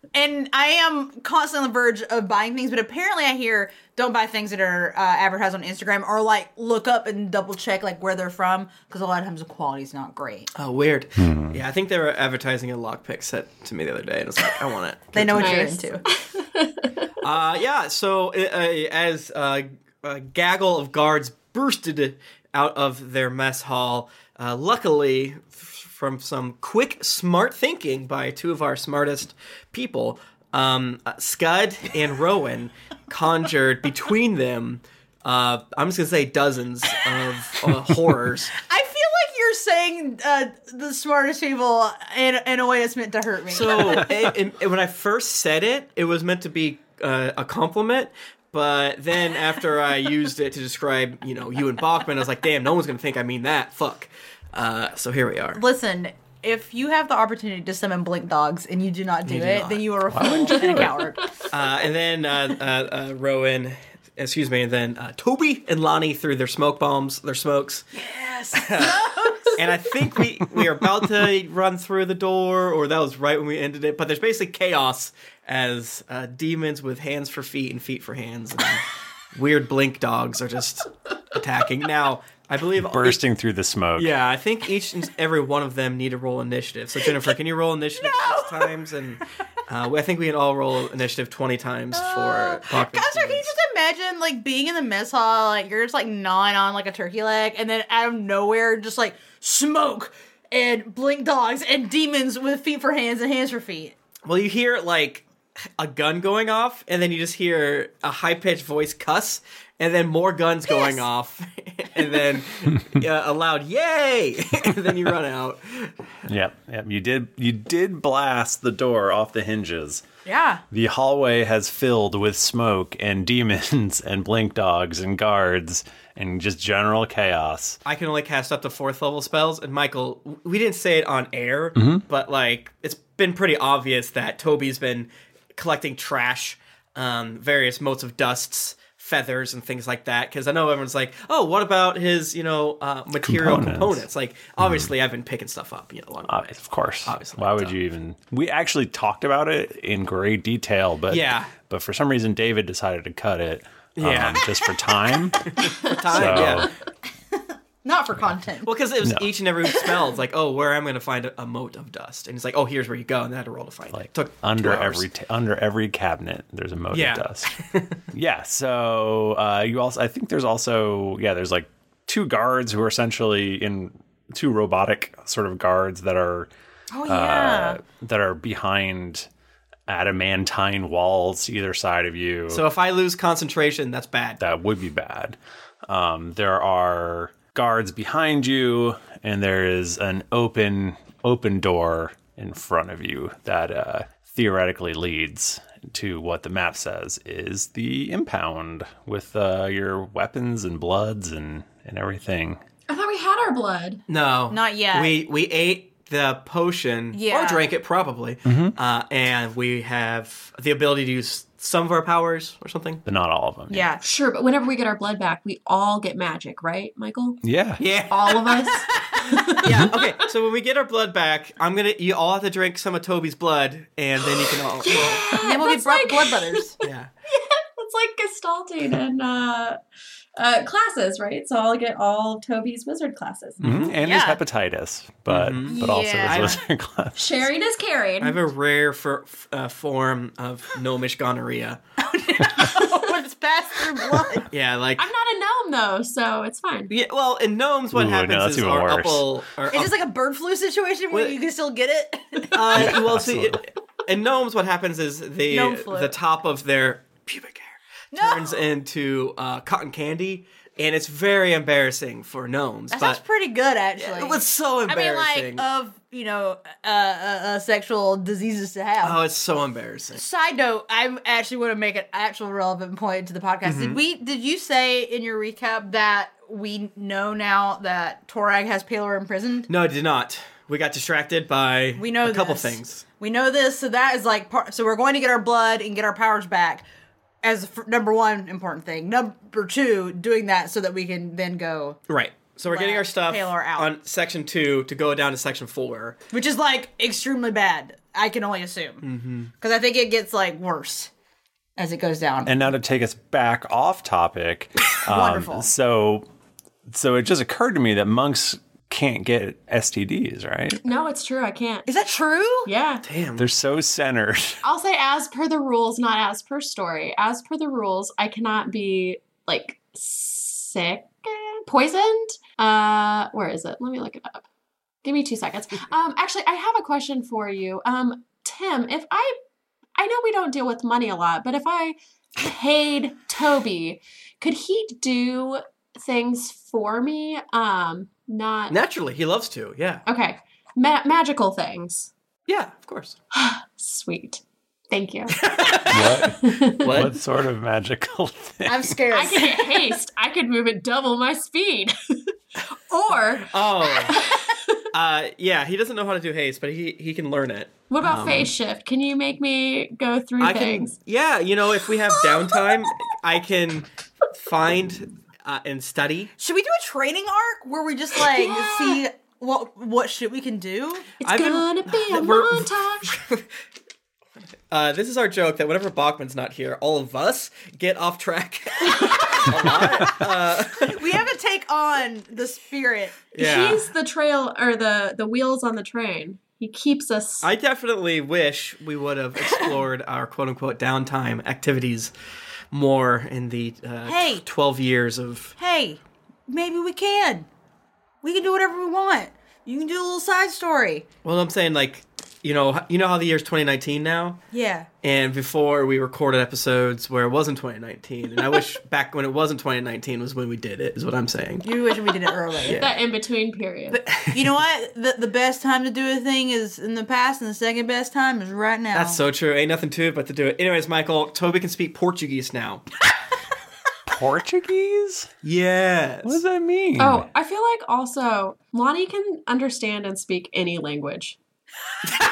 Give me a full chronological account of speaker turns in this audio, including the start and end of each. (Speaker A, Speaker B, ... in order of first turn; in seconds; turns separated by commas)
Speaker A: 0.1-10.5, Speaker B: 10.5-15.7, Speaker C: 11.2-11.6, Speaker A: 15.1-16.0, Speaker D: 15.3-17.1, Speaker B: 17.2-38.5, Speaker A: 38.6-44.1, Speaker B: 43.5-55.6, Speaker A: 55.5-61.3, Speaker B: 59.2-59.9, Speaker C: 60.1-60.9, Speaker B: 61.5-69.0, Speaker A: 68.0-69.6, Speaker B: 69.5-83.2, Speaker C: 82.8-84.1, Speaker B: 84.0-93.5, Speaker A: 88.0-88.7, Speaker A: 91.9-103.9, Speaker B: 104.2-105.2, Speaker B: 105.8-116.0, Speaker A: 110.7-111.0, Speaker C: 116.3-120.0, Speaker A: 120.2-120.6, Speaker C: 120.7-127.8, Speaker B: 127.8-146.5, Speaker C: 131.8-132.0, Speaker C: 143.2-144.1, Speaker C: 144.6-144.9, Speaker C: 146.3-155.5, Speaker B: 147.0-147.8, Speaker B: 151.1-151.5, Speaker B: 154.0-154.4, Speaker B: 155.4-156.7, Speaker C: 156.1-156.7, Speaker A: 157.3-158.7, Speaker B: 158.6-165.0, Speaker C: 159.0-159.3, Speaker C: 163.9-167.5, Speaker B: 166.9-168.0, Speaker C: 168.1-176.5, Speaker A: 176.9-177.8, Speaker C: 177.1-179.3, Speaker C: 179.9-182.6, Speaker B: 182.5-184.4, Speaker C: 184.4-202.6, Speaker D: 202.9-204.0, Speaker B: 204.1-213.0, Speaker A: 204.5-205.2, Speaker A: 207.1-207.7, Speaker C: 208.5-208.8, Speaker C: 213.1-213.9, Speaker A: 213.7-214.0, Speaker D: 214.0-217.4, Speaker C: 217.4-218.0, Speaker B: 217.8-218.7, Speaker D: 218.1-220.1, Speaker B: 219.6-225.2, Speaker D: 224.8-229.8, Speaker A: 224.9-226.8, Speaker B: 226.8-227.1, Speaker D: 230.4-233.6, Speaker B: 233.6-233.9, Speaker C: 233.6-237.5, Speaker A: 234.0-234.4, Speaker B: 235.3-236.6, Speaker A: 235.7-236.6, Speaker D: 237.2-238.4, Speaker B: 238.2-241.8, Speaker A: 242.0-244.4, Speaker B: 244.5-245.1, Speaker D: 245.0-246.9, Speaker B: 246.9-249.9, Speaker C: 247.9-249.3, Speaker A: 249.7-253.0, Speaker B: 251.1-251.3, Speaker B: 252.5-263.2, Speaker C: 252.7-253.6, Speaker A: 255.5-256.2, Speaker A: 258.1-258.6, Speaker A: 262.9-269.2, Speaker B: 264.0-265.7, Speaker B: 269.0-270.2, Speaker A: 270.1-279.7, Speaker B: 273.6-274.0, Speaker B: 279.7-283.0, Speaker A: 282.0-286.8, Speaker A: 287.4-292.0, Speaker B: 292.1-296.2, Speaker A: 292.7-293.9, Speaker A: 296.3-299.0, Speaker B: 299.0-299.5, Speaker A: 299.6-301.1, Speaker A: 301.8-302.5, Speaker C: 302.4-306.2, Speaker A: 305.1-305.7, Speaker C: 306.9-310.8, Speaker D: 310.8-311.9, Speaker A: 311.9-312.7, Speaker D: 312.7-313.0, Speaker B: 313.0-313.5, Speaker C: 313.4-314.6, Speaker D: 314.6-324.4, Speaker D: 325.0-329.4, Speaker D: 330.0-338.8, Speaker B: 338.7-340.0, Speaker D: 340.1-342.1, Speaker B: 342.5-343.2, Speaker D: 343.3-345.4, Speaker B: 345.3-346.3, Speaker C: 345.9-349.0, Speaker D: 346.4-347.0, Speaker B: 346.8-347.2, Speaker A: 348.6-349.9, Speaker D: 349.1-354.9, Speaker B: 353.4-354.2, Speaker B: 354.9-358.5, Speaker D: 357.9-360.9, Speaker B: 360.4-366.3, Speaker A: 366.4-371.1, Speaker D: 368.2-369.0, Speaker D: 371.2-373.1, Speaker B: 371.2-373.5, Speaker B: 374.7-381.1, Speaker A: 380.8-383.2, Speaker B: 383.3-383.9, Speaker D: 383.4-387.5, Speaker B: 387.4-392.1, Speaker B: 392.7-395.5, Speaker A: 394.0-394.4, Speaker A: 395.6-397.5, Speaker A: 398.2-401.0, Speaker B: 401.2-404.4, Speaker A: 404.5-404.9, Speaker B: 405.0-411.9, Speaker A: 411.6-412.8, Speaker B: 412.6-413.0, Speaker D: 412.7-414.0, Speaker A: 413.9-419.2, Speaker B: 414.1-414.6, Speaker B: 418.9-422.8, Speaker C: 424.1-425.3, Speaker B: 425.4-426.4, Speaker C: 426.2-427.2, Speaker D: 427.0-431.4